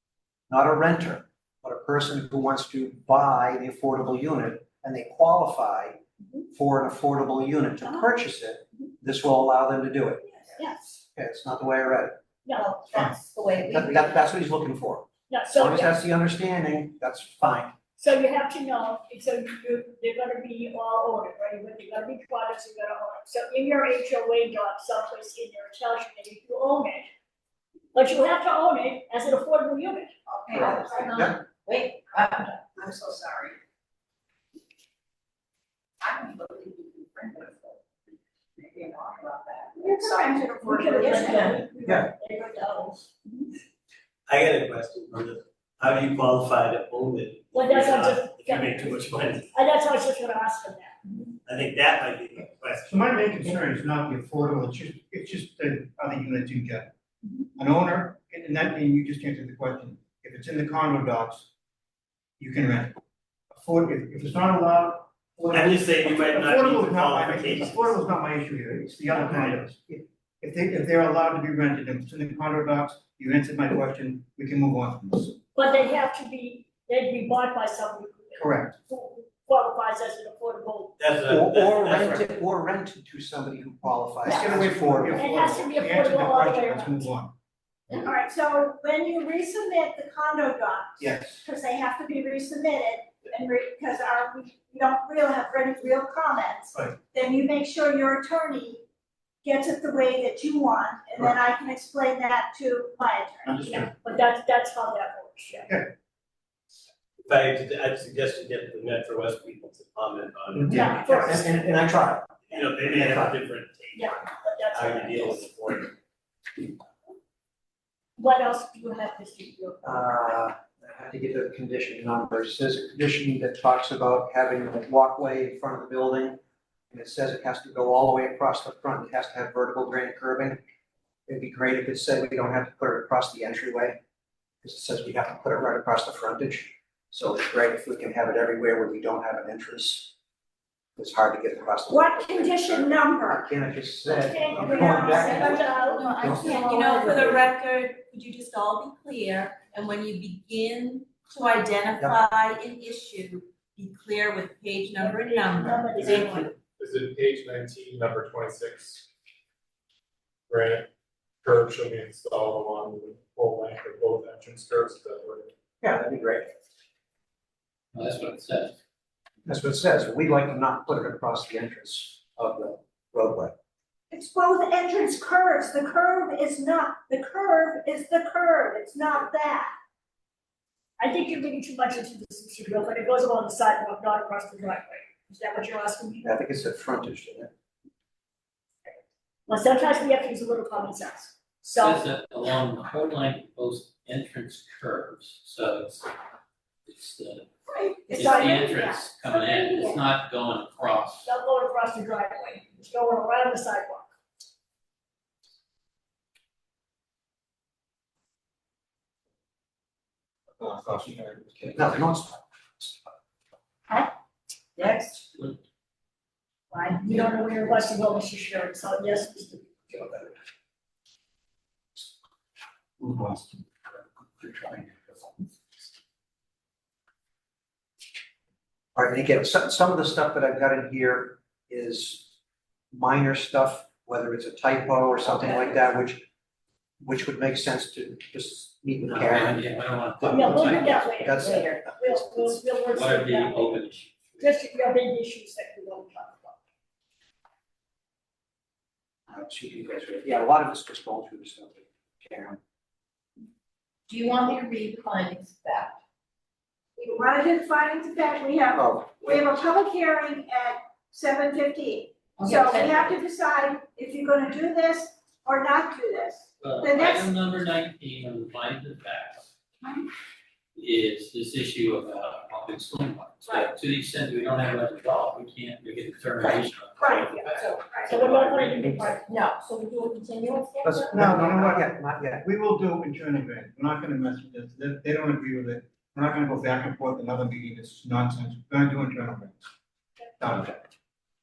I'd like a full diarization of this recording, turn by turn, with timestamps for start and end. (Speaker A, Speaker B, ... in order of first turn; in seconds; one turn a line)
Speaker A: 0.5-6.0
Speaker A: 6.5-10.2
Speaker B: 10.6-11.0
Speaker A: 11.1-12.2
Speaker C: 12.5-14.2
Speaker D: 12.9-13.2
Speaker A: 13.7-17.7
Speaker B: 15.3-15.9
Speaker B: 18.0-27.1
Speaker B: 27.9-30.1
Speaker C: 30.3-33.6
Speaker A: 30.5-31.4
Speaker C: 36.0-37.8
Speaker C: 38.6-40.3
Speaker E: 39.8-41.6
Speaker B: 40.6-43.1
Speaker C: 41.0-41.6
Speaker F: 44.3-49.5
Speaker B: 47.5-51.1
Speaker F: 51.4-52.9
Speaker D: 52.9-56.9
Speaker D: 57.6-61.5
Speaker D: 62.4-63.0
Speaker D: 63.5-75.4
Speaker F: 65.5-67.9
Speaker B: 75.5-80.9
Speaker D: 78.4-78.8
Speaker F: 81.0-82.3
Speaker A: 81.3-85.2
Speaker D: 84.2-87.3
Speaker B: 85.2-87.0
Speaker E: 87.9-98.8
Speaker A: 91.0-91.4
Speaker E: 99.4-103.7
Speaker D: 103.4-103.9
Speaker B: 103.6-105.7
Speaker F: 107.2-111.1
Speaker A: 110.5-112.3
Speaker B: 110.7-111.6
Speaker F: 112.5-114.2
Speaker A: 112.8-113.3
Speaker B: 113.9-115.5
Speaker F: 114.7-115.9
Speaker B: 118.2-120.0
Speaker A: 119.8-126.4
Speaker A: 126.9-130.6
Speaker A: 131.3-134.0
Speaker A: 134.6-140.1
Speaker A: 141.0-147.5
Speaker E: 141.9-143.5
Speaker B: 144.1-147.1
Speaker E: 144.6-146.0
Speaker C: 145.1-156.5
Speaker B: 155.0-156.5
Speaker G: 155.9-159.1
Speaker G: 160.5-160.9
Speaker G: 161.4-165.5
Speaker A: 165.8-166.5
Speaker H: 167.9-168.7
Speaker A: 169.4-173.5
Speaker E: 174.1-179.7
Speaker B: 181.0-186.2
Speaker A: 186.2-187.5
Speaker B: 189.5-192.0
Speaker H: 191.8-196.1
Speaker H: 196.8-201.3
Speaker E: 197.7-200.0
Speaker B: 201.2-204.1
Speaker D: 210.6-211.8
Speaker A: 211.7-213.0
Speaker C: 214.8-215.2
Speaker B: 216.7-220.3
Speaker D: 223.0-223.6
Speaker D: 224.4-225.1
Speaker A: 228.9-232.3
Speaker A: 232.9-236.2
Speaker C: 235.4-235.7
Speaker A: 237.0-242.6
Speaker H: 239.1-240.9
Speaker B: 240.3-243.8
Speaker C: 241.4-241.8
Speaker H: 242.9-244.5
Speaker B: 244.4-246.6
Speaker A: 249.3-252.6
Speaker C: 254.1-256.0
Speaker E: 256.9-267.3
Speaker A: 258.7-259.1
Speaker C: 262.4-263.2
Speaker H: 266.6-269.5
Speaker H: 270.7-278.9
Speaker E: 277.0-277.4
Speaker C: 277.6-277.9
Speaker B: 278.0-279.2
Speaker C: 279.2-281.2
Speaker A: 280.8-282.4
Speaker D: 281.1-289.7
Speaker D: 290.4-290.9